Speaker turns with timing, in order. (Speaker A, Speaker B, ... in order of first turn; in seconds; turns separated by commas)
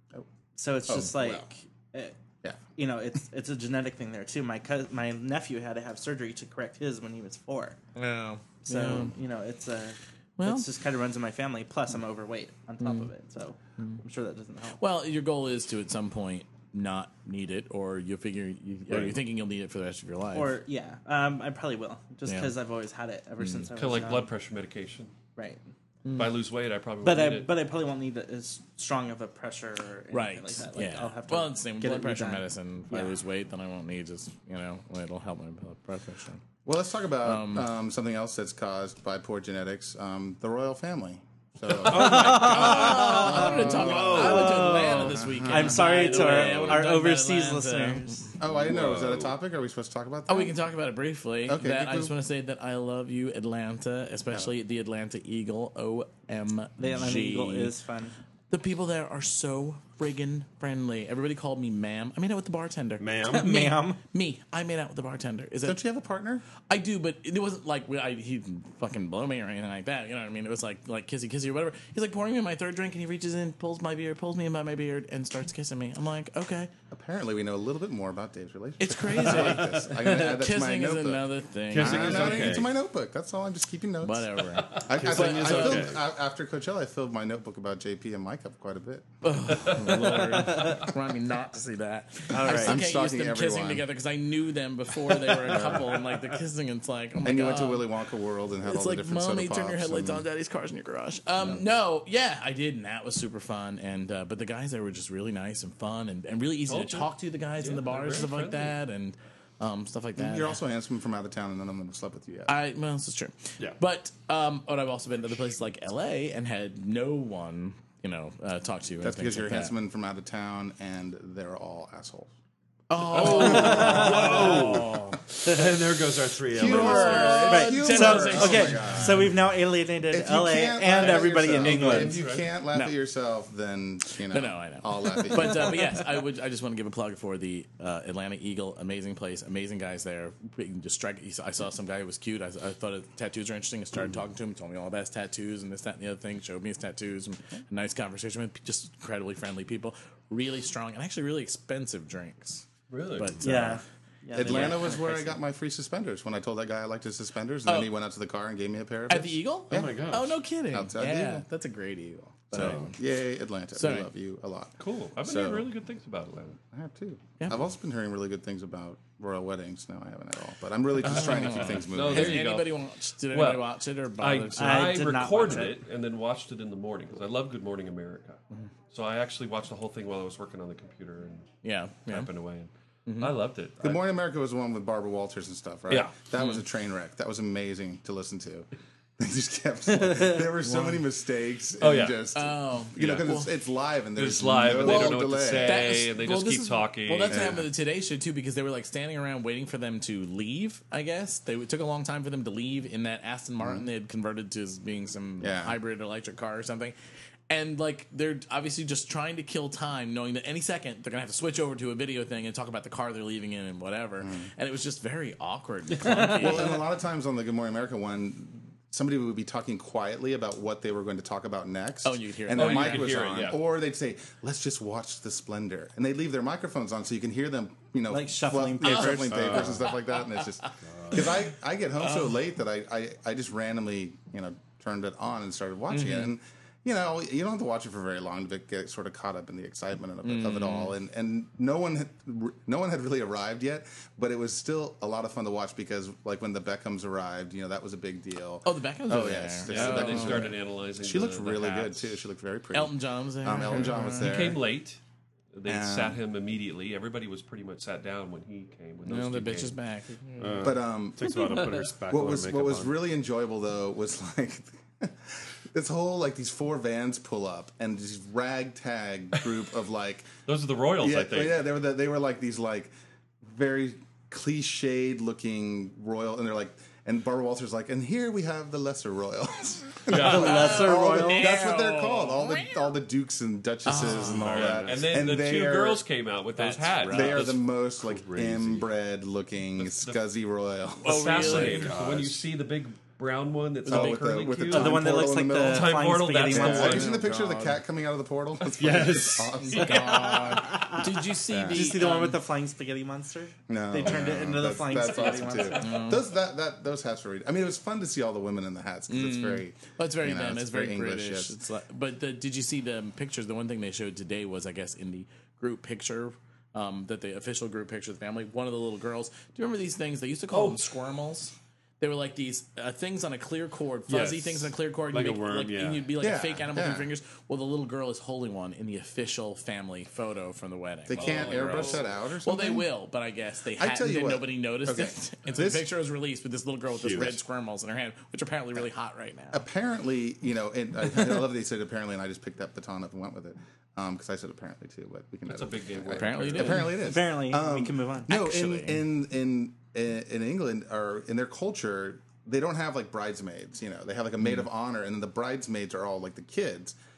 Speaker A: 0.5-2.2, Speaker B: 0.9-1.5, Speaker A: 2.8-7.8, Speaker C: 8.0-9.2, Speaker A: 8.6-14.8, Speaker C: 10.4-10.7, Speaker C: 12.8-13.1, Speaker C: 14.8-20.6, Speaker D: 18.9-19.2, Speaker A: 20.3-24.3, Speaker C: 22.2-22.5, Speaker C: 23.4-23.7, Speaker E: 23.8-25.1, Speaker A: 25.4-25.7, Speaker C: 26.0-26.4, Speaker E: 26.1-27.5, Speaker A: 27.0-33.2, Speaker C: 30.1-36.4, Speaker B: 36.6-44.4, Speaker C: 37.2-37.7, Speaker D: 41.8-44.9, Speaker A: 41.9-48.3, Speaker C: 42.0-48.3, Speaker B: 44.9-45.9, Speaker D: 46.0-46.8, Speaker B: 48.4-50.5, Speaker D: 48.4-49.4, Speaker C: 50.3-57.7, Speaker B: 51.5-52.1, Speaker A: 56.8-58.1, Speaker C: 58.5-65.8, Speaker D: 63.0-63.5, Speaker A: 63.3-64.0, Speaker B: 65.6-66.4, Speaker C: 66.6-76.7, Speaker B: 76.9-89.7, Speaker C: 78.8-82.6, Speaker D: 81.7-82.7, Speaker C: 84.0-85.9, Speaker D: 84.8-86.0, Speaker C: 89.2-97.9, Speaker E: 89.5-90.9, Speaker A: 92.3-92.8, Speaker B: 92.5-93.9, Speaker B: 95.4-96.0, Speaker B: 97.2-100.2, Speaker C: 98.6-110.6, Speaker E: 106.7-108.8, Speaker B: 110.2-112.5, Speaker C: 112.5-119.7, Speaker B: 119.0-122.3, Speaker C: 122.9-125.2, Speaker D: 123.1-127.5, Speaker B: 123.3-124.8, Speaker A: 123.4-124.4, Speaker B: 126.5-129.3, Speaker C: 126.5-129.3, Speaker A: 127.3-132.2, Speaker B: 130.1-135.9, Speaker E: 131.3-132.5, Speaker C: 134.3-153.8, Speaker E: 152.9-153.4, Speaker A: 153.4-155.4, Speaker B: 154.3-160.0, Speaker C: 154.4-154.9, Speaker C: 157.7-157.9, Speaker C: 159.1-163.0, Speaker D: 159.7-160.4, Speaker B: 160.7-161.5, Speaker B: 162.5-165.7, Speaker D: 162.5-162.9, Speaker C: 163.8-164.1, Speaker E: 164.8-166.6, Speaker B: 166.7-172.5, Speaker C: 171.0-175.1, Speaker E: 171.1-181.6, Speaker A: 174.5-175.8, Speaker C: 181.6-182.3, Speaker E: 182.1-184.0, Speaker C: 183.1-183.4, Speaker B: 183.8-195.9, Speaker E: 185.9-186.3, Speaker A: 189.9-190.4, Speaker C: 190.6-191.0, Speaker E: 191.8-192.2, Speaker C: 192.3-193.5, Speaker E: 193.0-193.2, Speaker E: 194.2-197.6, Speaker C: 194.8-206.9, Speaker B: 197.3-197.7, Speaker B: 205.4-205.8, Speaker C: 207.5-216.8, Speaker B: 214.2-214.5, Speaker B: 216.1-254.6, Speaker C: 222.0-223.3, Speaker E: 222.5-223.6, Speaker A: 228.1-229.6, Speaker C: 228.8-229.6, Speaker D: 229.3-229.9, Speaker D: 230.9-231.3, Speaker C: 232.0-232.4, Speaker C: 235.9-236.3, Speaker C: 240.2-240.9, Speaker C: 248.6-250.6, Speaker E: 249.7-252.0, Speaker C: 252.7-254.4, Speaker E: 254.0-255.0, Speaker E: 255.5-259.7, Speaker B: 255.7-256.2, Speaker C: 259.1-260.7, Speaker D: 260.4-262.9, Speaker B: 260.6-261.6, Speaker B: 262.1-270.3, Speaker E: 270.4-271.6, Speaker B: 271.0-272.9, Speaker B: 273.4-286.0, Speaker E: 280.1-280.8, Speaker A: 280.1-281.6, Speaker C: 280.3-282.7, Speaker C: 283.9-284.8, Speaker E: 284.3-287.6, Speaker C: 286.6-287.4, Speaker B: 287.1-291.8, Speaker D: 288.0-288.9, Speaker E: 289.8-290.2, Speaker E: 291.0-297.2, Speaker C: 291.0-291.9, Speaker D: 291.4-292.4, Speaker B: 293.9-300.6, Speaker C: 293.9-294.2, Speaker A: 294.7-297.1, Speaker C: 296.5-297.8, Speaker D: 298.7-299.7, Speaker C: 299.6-302.4, Speaker A: 299.7-301.1, Speaker B: 301.5-301.9, Speaker A: 301.7-305.9, Speaker B: 303.7-311.6, Speaker C: 305.8-306.2, Speaker C: 309.1-339.6, Speaker E: 320.5-320.8, Speaker D: 324.1-326.1, Speaker B: 326.2-327.1, Speaker B: 331.1-332.9, Speaker E: 331.1-332.1, Speaker B: 333.8-335.9, Speaker D: 336.9-337.4, Speaker B: 339.5-356.9, Speaker E: 345.5-346.9, Speaker C: 346.1-347.0, Speaker A: 347.0-348.4, Speaker C: 348.5-349.0